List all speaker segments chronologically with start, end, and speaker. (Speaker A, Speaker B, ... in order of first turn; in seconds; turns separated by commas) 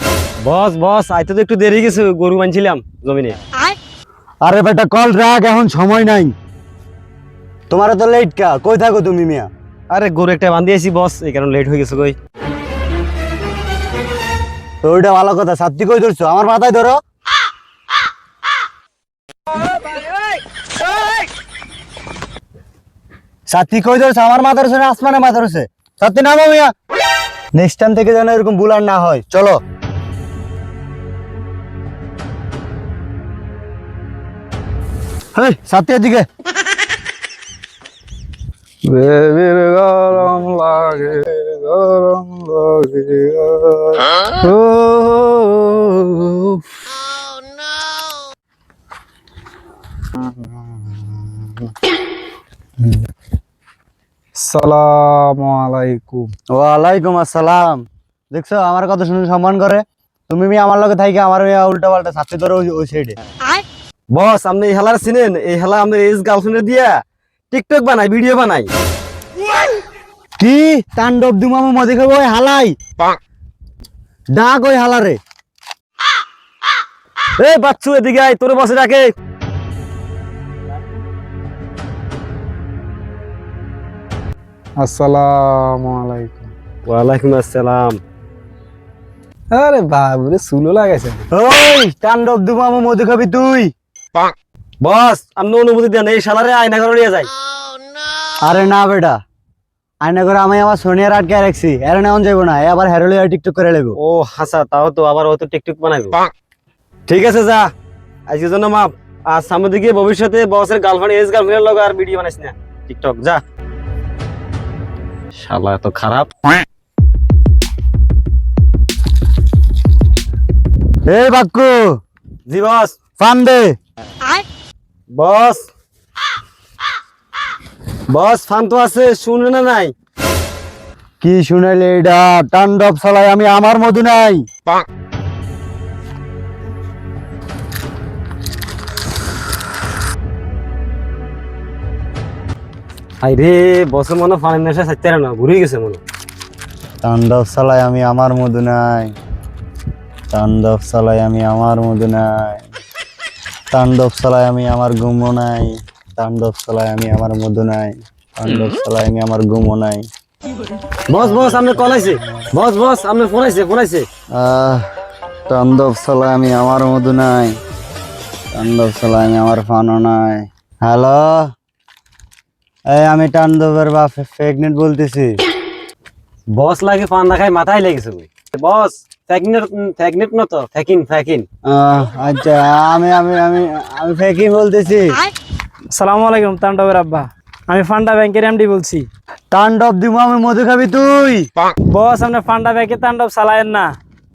Speaker A: 0.4-3.4, Speaker B: 4.4-6.3, Speaker B: 7.7-9.5, Speaker A: 9.9-12.2, Speaker B: 14.8-17.0, Speaker B: 23.5-26.7, Speaker B: 27.5-29.6, Speaker B: 35.4-36.3, Speaker C: 38.9-46.6, Speaker C: 54.4-56.3, Speaker B: 56.5-63.2, Speaker A: 64.1-67.0, Speaker A: 67.5-68.7, Speaker B: 70.4-72.8, Speaker B: 74.3-75.2, Speaker A: 77.4-79.1, Speaker C: 84.8-86.5, Speaker A: 86.8-88.0, Speaker C: 89.5-91.3, Speaker B: 91.3-93.7, Speaker A: 94.8-97.3, Speaker B: 98.4-99.2, Speaker B: 100.0-104.0, Speaker A: 104.0-106.3, Speaker A: 107.1-107.7, Speaker A: 108.3-113.4, Speaker A: 115.3-116.3, Speaker B: 121.1-122.0, Speaker A: 122.5-123.0, Speaker B: 123.2-123.8, Speaker A: 125.1-125.7, Speaker A: 128.1-129.9, Speaker B: 131.2-134.5, Speaker A: 143.2-146.0, Speaker B: 147.0-149.2, Speaker B: 150.3-152.7, Speaker B: 153.7-160.1, Speaker A: 161.1-164.1, Speaker B: 161.2-162.5, Speaker B: 164.3-164.9, Speaker B: 165.5-167.6, Speaker B: 168.5-171.5, Speaker B: 172.9-175.4, Speaker A: 176.5-181.4, Speaker B: 181.7-185.3, Speaker D: 185.9-189.1, Speaker B: 189.5-191.5, Speaker D: 191.9-193.9